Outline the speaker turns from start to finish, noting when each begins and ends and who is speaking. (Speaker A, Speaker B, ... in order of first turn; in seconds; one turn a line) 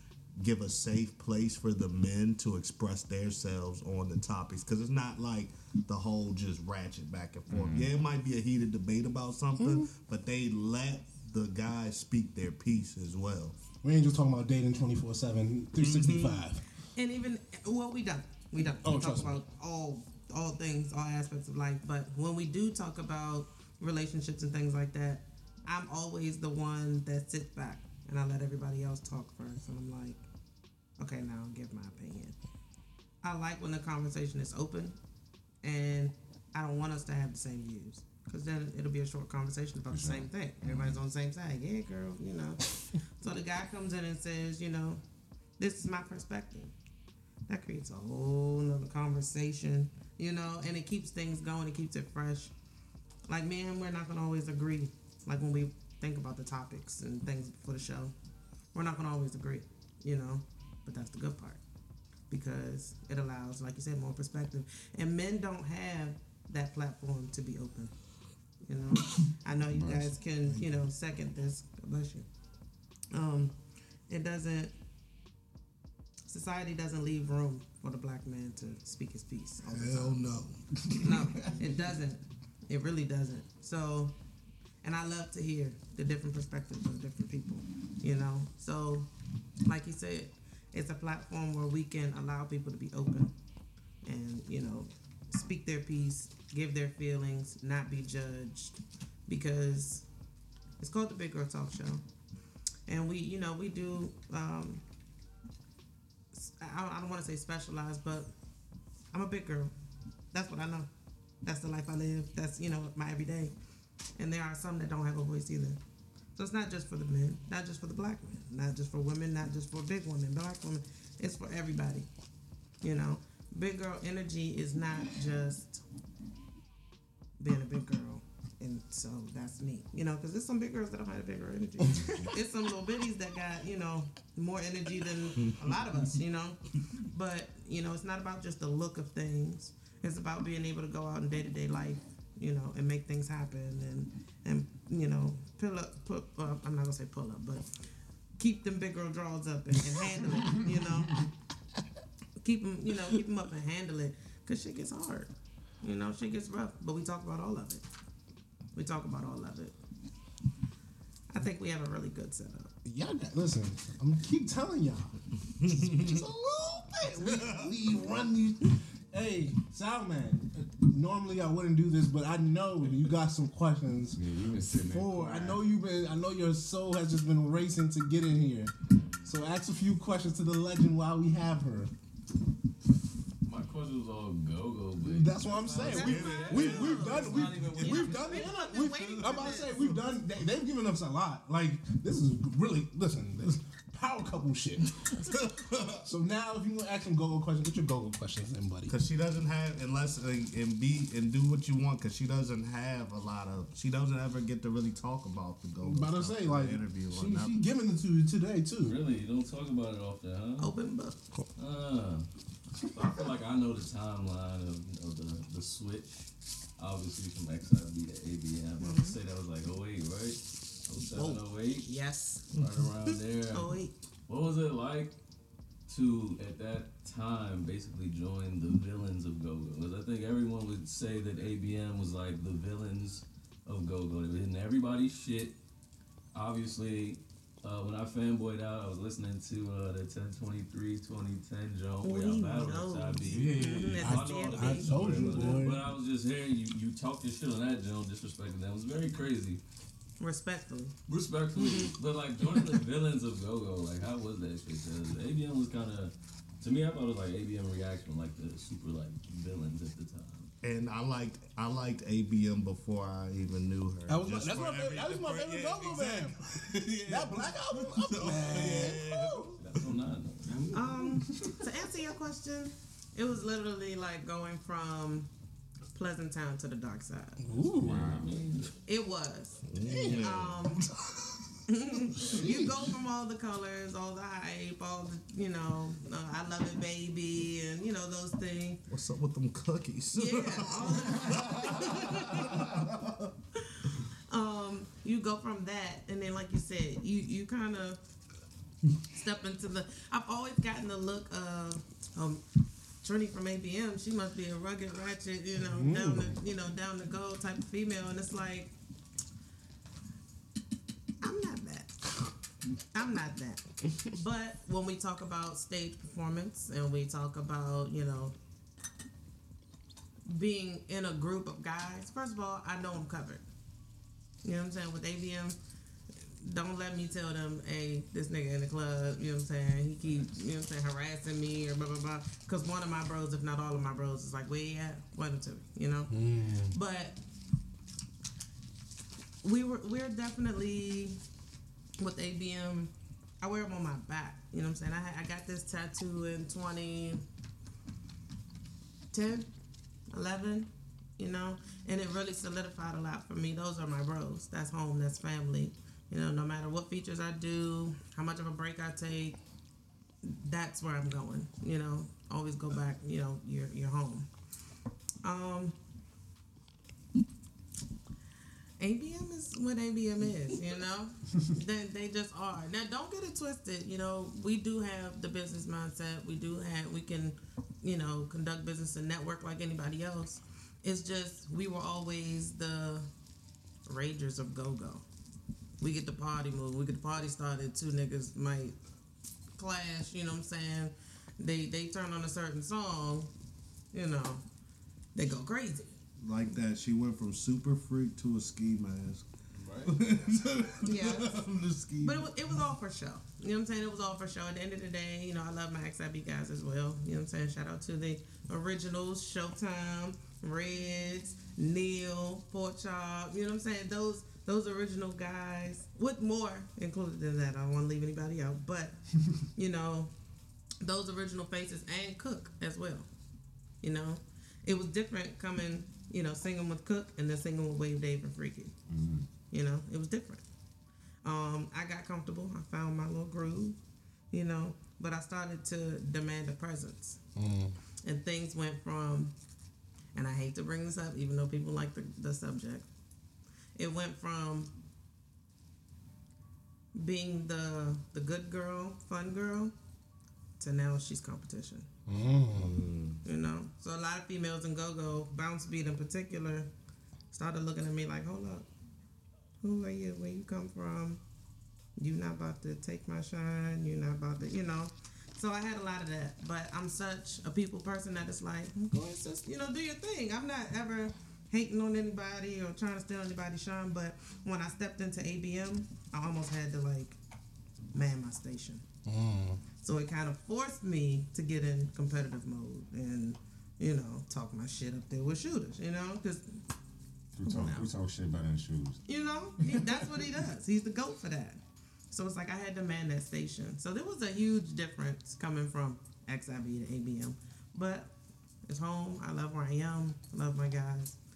Speaker A: 0.4-13.6
Speaker B: 7.5-7.9
Speaker C: 9.6-9.9
Speaker C: 13.8-16.6
Speaker A: 15.8-16.4
Speaker D: 16.9-30.2
Speaker C: 18.8-19.4
Speaker D: 31.0-32.3
Speaker D: 33.2-35.0
Speaker D: 35.6-45.0
Speaker B: 39.9-41.0
Speaker D: 45.6-46.7
Speaker D: 47.5-52.5
Speaker D: 53.3-58.1
Speaker D: 58.7-61.6
Speaker D: 62.3-67.9
Speaker D: 68.7-72.3
Speaker B: 69.7-70.1
Speaker D: 73.1-73.5
Speaker D: 74.1-74.7
Speaker D: 76.2-80.2
Speaker A: 79.7-81.0
Speaker C: 80.7-81.6
Speaker D: 81.0-84.1
Speaker D: 84.8-89.1
Speaker D: 89.6-93.3
Speaker D: 94.0-100.1
Speaker D: 100.8-102.0
Speaker D: 102.9-104.8
Speaker D: 106.3-108.3
Speaker D: 109.1-109.7
Speaker D: 110.3-110.9
Speaker D: 111.4-113.5
Speaker D: 114.2-115.8
Speaker D: 116.4-122.1
Speaker D: 122.8-125.8
Speaker D: 127.4-147.7
Speaker B: 131.9-132.3
Speaker D: 148.4-151.3
Speaker D: 152.4-157.8
Speaker D: 158.7-159.8
Speaker D: 161.3-162.7
Speaker C: 162.8-174.2
Speaker A: 165.6-166.2
Speaker A: 167.1-167.9
Speaker B: 174.1-175.6
Speaker C: 174.8-178.7
Speaker E: 178.9-179.3
Speaker C: 179.2-181.9
Speaker E: 183.4-188.4
Speaker C: 185.0-195.2
Speaker D: 185.7-190.1
Speaker A: 186.0-187.2
Speaker A: 188.9-189.8
Speaker A: 195.1-196.0
Speaker C: 196.0-198.9
Speaker A: 198.9-207.6
Speaker C: 205.8-209.0
Speaker E: 208.8-210.7
Speaker D: 210.6-211.2
Speaker E: 211.6-212.3
Speaker E: 212.8-221.9
Speaker D: 218.8-219.2
Speaker D: 221.1-222.5
Speaker E: 222.5-223.7
Speaker A: 222.6-222.9
Speaker D: 223.5-223.9
Speaker E: 224.3-225.1
Speaker E: 225.9-235.6
Speaker E: 236.3-249.6
Speaker D: 242.0-245.6
Speaker B: 243.3-244.1
Speaker C: 244.0-245.8
Speaker D: 250.2-250.9
Speaker E: 251.1-260.5
Speaker D: 251.5-251.9
Speaker A: 260.6-270.0
Speaker C: 264.1-266.5
Speaker C: 267.0-269.6
Speaker E: 269.6-270.8
Speaker B: 270.4-271.5
Speaker D: 270.7-275.3
Speaker D: 275.9-280.8
Speaker C: 277.4-278.2
Speaker B: 277.8-278.3
Speaker E: 277.8-278.7
Speaker A: 279.7-281.5
Speaker C: 279.8-280.4
Speaker D: 281.7-288.8
Speaker A: 282.1-282.5
Speaker C: 282.2-282.8
Speaker A: 288.9-293.3
Speaker D: 290.1-292.8
Speaker D: 293.6-298.0
Speaker D: 299.1-302.4
Speaker D: 303.0-308.7
Speaker C: 305.6-306.4
Speaker D: 311.2-311.9
Speaker D: 312.9-318.3
Speaker D: 320.2-323.4
Speaker D: 324.4-325.6
Speaker D: 326.2-337.2
Speaker C: 336.1-336.8
Speaker D: 339.4-341.2
Speaker D: 342.0-347.2
Speaker D: 349.1-349.5
Speaker D: 350.1-359.4
Speaker D: 360.2-364.3
Speaker D: 365.2-365.8
Speaker D: 368.8-383.1
Speaker D: 383.9-385.0
Speaker D: 385.8-388.8
Speaker D: 389.6-393.3
Speaker D: 393.9-394.4
Speaker D: 395.1-395.9
Speaker A: 396.2-399.3
Speaker E: 399.6-399.9
Speaker A: 399.8-402.3
Speaker D: 400.8-401.4
Speaker D: 402.0-420.1
Speaker D: 420.8-423.1
Speaker D: 423.8-428.7
Speaker B: 428.9-429.3
Speaker D: 429.5-430.4
Speaker D: 431.2-433.8
Speaker D: 434.3-437.2
Speaker C: 437.4-437.8
Speaker D: 438.0-439.3
Speaker D: 440.1-442.9
Speaker D: 443.8-444.7
Speaker D: 446.9-449.7
Speaker D: 450.6-451.9
Speaker C: 452.1-452.8
Speaker A: 452.6-453.2
Speaker D: 453.2-456.7
Speaker D: 457.3-458.7
Speaker D: 459.6-461.2
Speaker D: 462.0-477.2
Speaker D: 477.9-478.8
Speaker C: 479.1-479.6
Speaker D: 479.8-486.6
Speaker B: 487.3-489.0
Speaker D: 487.4-487.9
Speaker D: 489.1-498.1
Speaker B: 489.6-490.1
Speaker D: 498.7-501.2